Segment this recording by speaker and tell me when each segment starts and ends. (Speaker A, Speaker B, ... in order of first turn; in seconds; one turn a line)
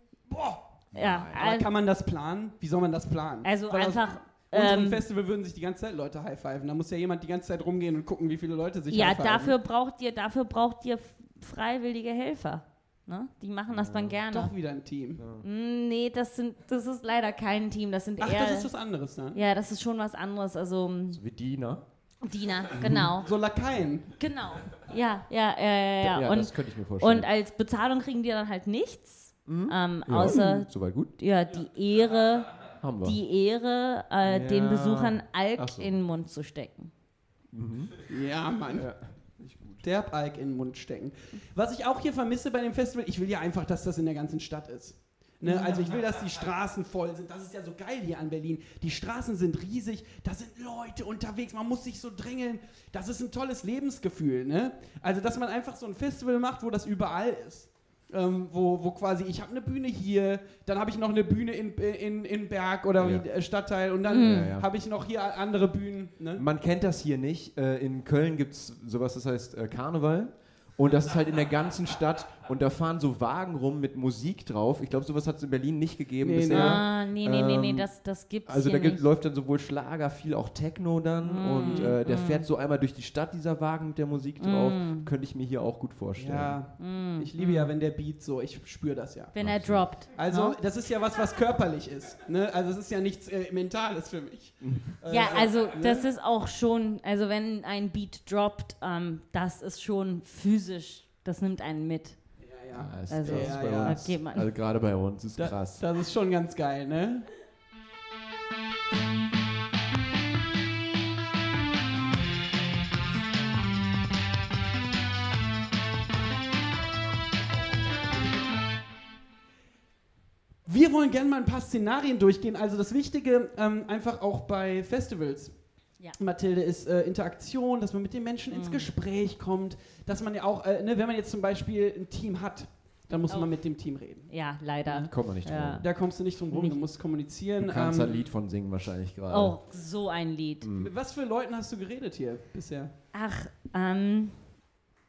Speaker A: 0.3-0.6
Speaker B: 0.9-1.4
Speaker C: 0.9-1.7
Speaker A: 1.3-9.5
Speaker C: 3.4-5.0
Speaker C: 8.9-14.5
Speaker B: 13.7-14.2
Speaker A: 14.3-15.2
Speaker B: 15.2-15.4
Speaker C: 15.4-18.7
Speaker A: 18.2-19.4
Speaker C: 19.3-21.2
Speaker B: 21.1-21.8
Speaker C: 22.2-23.3
Speaker B: 22.8-23.0
Speaker A: 23.2-24.2
Speaker C: 24.2-36.9
Speaker B: 26.0-27.3
Speaker B: 29.4-31.1
Speaker B: 32.8-33.2
Speaker B: 34.2-35.9
Speaker B: 37.5-38.0
Speaker A: 38.1-38.9
Speaker B: 38.7-39.8
Speaker A: 39.8-66.4
Speaker C: 45.4-45.9
Speaker B: 63.0-63.2
Speaker C: 64.1-64.5
Speaker B: 64.2-64.7
Speaker B: 66.3-77.9
Speaker A: 76.2-76.9
Speaker C: 76.5-79.0
Speaker B: 78.4-86.6
Speaker C: 81.2-82.5
Speaker A: 81.6-82.0
Speaker C: 84.4-85.1
Speaker A: 86.2-89.3
Speaker C: 86.8-87.7
Speaker C: 89.3-90.6
Speaker B: 89.3-89.9
Speaker A: 90.0-96.1
Speaker B: 94.6-94.9
Speaker C: 95.1-102.4
Speaker A: 102.4-104.1
Speaker B: 102.7-105.8
Speaker C: 103.1-104.5
Speaker A: 105.3-107.3
Speaker A: 120.7-134.3
Speaker C: 128.5-128.9
Speaker C: 134.3-135.9
Speaker B: 135.1-135.8
Speaker A: 135.8-138.3
Speaker B: 137.6-139.6
Speaker C: 139.3-140.7
Speaker B: 140.6-140.9
Speaker A: 140.8-142.9
Speaker C: 143.1-144.4